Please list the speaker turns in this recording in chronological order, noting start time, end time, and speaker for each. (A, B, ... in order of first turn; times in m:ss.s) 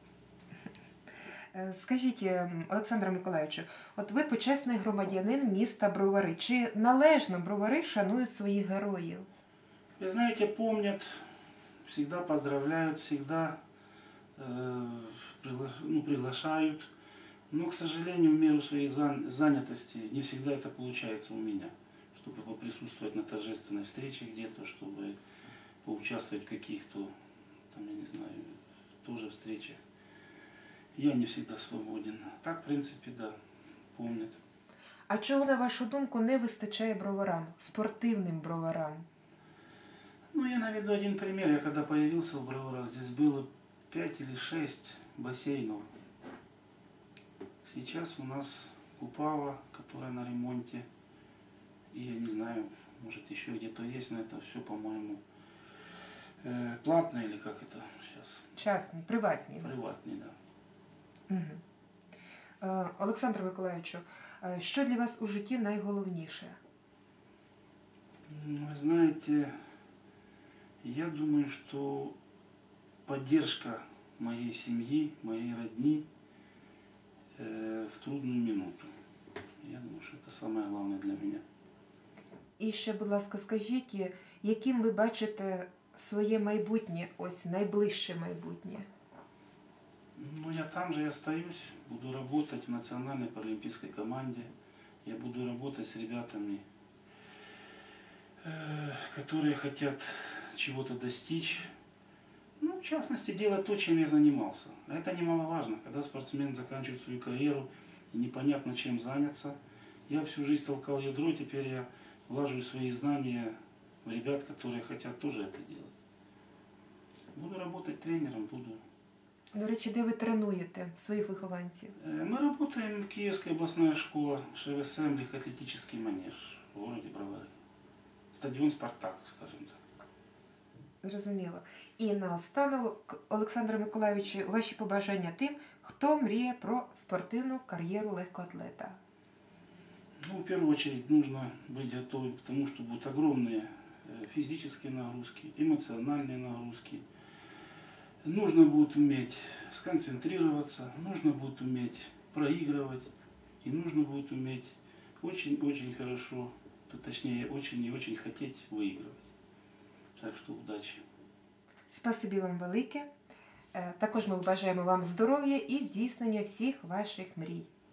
0:01.5-0:09.3 A
0:10.0-0:11.2 B
0:11.8-0:13.6 B
0:14.4-0:16.9 B
0:17.5-0:25.2 B
0:25.8-0:27.1 B
0:27.7-0:29.8 B
0:30.9-0:33.4 B
0:33.9-0:34.4 B
0:35.1-0:39.0 A
0:40.3-0:45.9 B
0:47.6-0:50.9 B
0:51.9-0:55.2 B
0:56.4-0:58.4 B
0:58.6-0:59.7 A
0:59.6-1:00.3 B
1:01.3-1:01.6 A
1:02.6-1:06.6 A
1:08.3-1:09.5 B
1:10.8-1:12.2 B
1:13.0-1:16.0 B
1:17.4-1:18.9 B
1:19.6-1:21.4 B
1:22.6-1:28.9 A
1:30.2-1:34.5 B
1:35.0-1:36.6 B
1:38.4-1:41.7 B
1:42.6-1:49.6 B
1:50.1-1:53.5 B
1:54.0-1:55.9 B
1:57.3-1:58.8 B
1:59.5-2:01.9 A
2:02.0-2:07.5 B
2:08.3-2:09.8 B
2:11.0-2:19.0 A
2:20.2-2:27.0 B
2:28.2-2:33.1 B
2:33.6-2:39.2 B
2:40.2-2:41.0 B
2:41.9-2:43.1 A
2:43.7-2:47.7 A